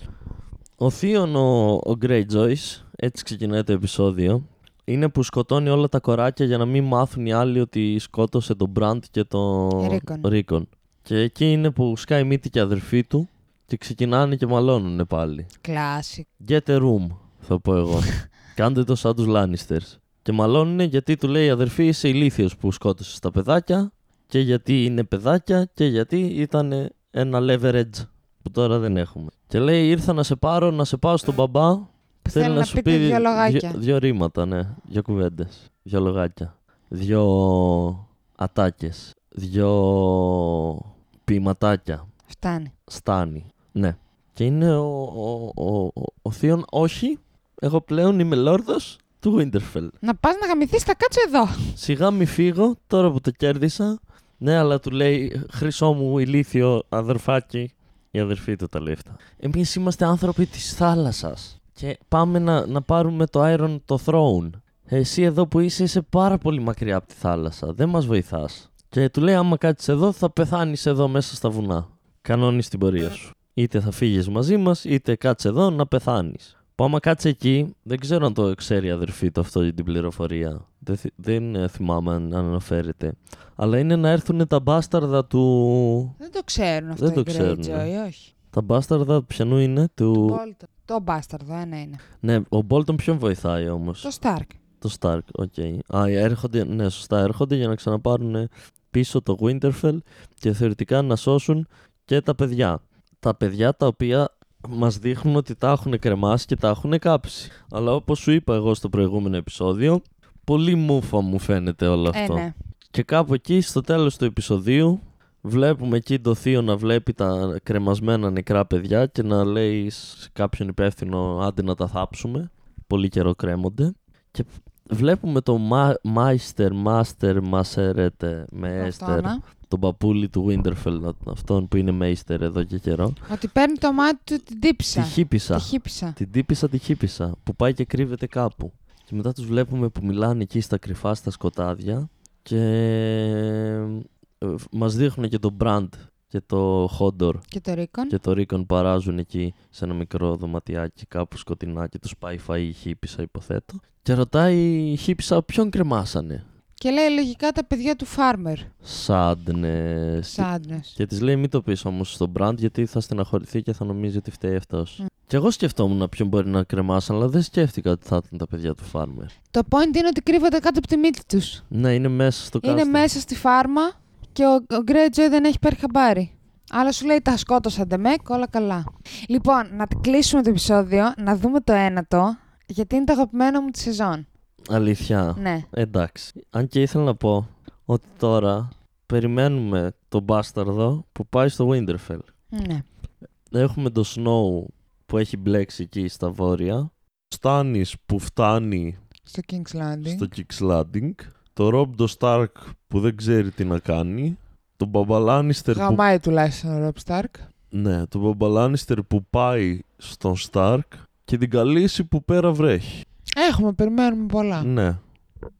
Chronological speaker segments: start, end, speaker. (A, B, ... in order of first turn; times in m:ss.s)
0:00.8-0:15.5 A
0:09.8-0:10.3 B
0:15.6-0:16.3 B
0:16.4-0:42.0 A
0:32.2-0:33.8 B
0:42.3-0:42.7 B
0:42.9-0:49.9 A
0:50.0-0:51.8 B
0:51.8-1:26.1 A
1:26.2-1:28.3 B
1:27.0-1:27.9 A
1:28.5-1:30.4 A
1:30.1-1:32.0 B
1:32.2-1:34.1 A
1:34.0-1:34.5 B
1:34.8-2:13.2 A
1:52.1-1:52.5 B
2:08.7-2:09.4 B
2:13.3-2:16.2 B
2:14.9-2:27.4 A
2:27.5-2:28.1 B
2:28.1-2:36.4 A
2:36.8-2:38.7 B
2:38.8-2:49.3 A
2:40.3-2:40.9 B
2:49.5-2:51.6 B
2:51.7-2:53.1 A
2:52.6-3:04.3 B
3:04.7-3:12.2 A
3:05.4-3:05.7 B
3:12.5-3:12.8 B
3:13.5-3:19.0 A
3:19.3-3:20.3 B
3:20.0-3:26.0 A
3:25.7-3:27.4 B
3:27.7-3:33.0 A
3:33.4-3:34.7 B
3:34.6-3:35.0 A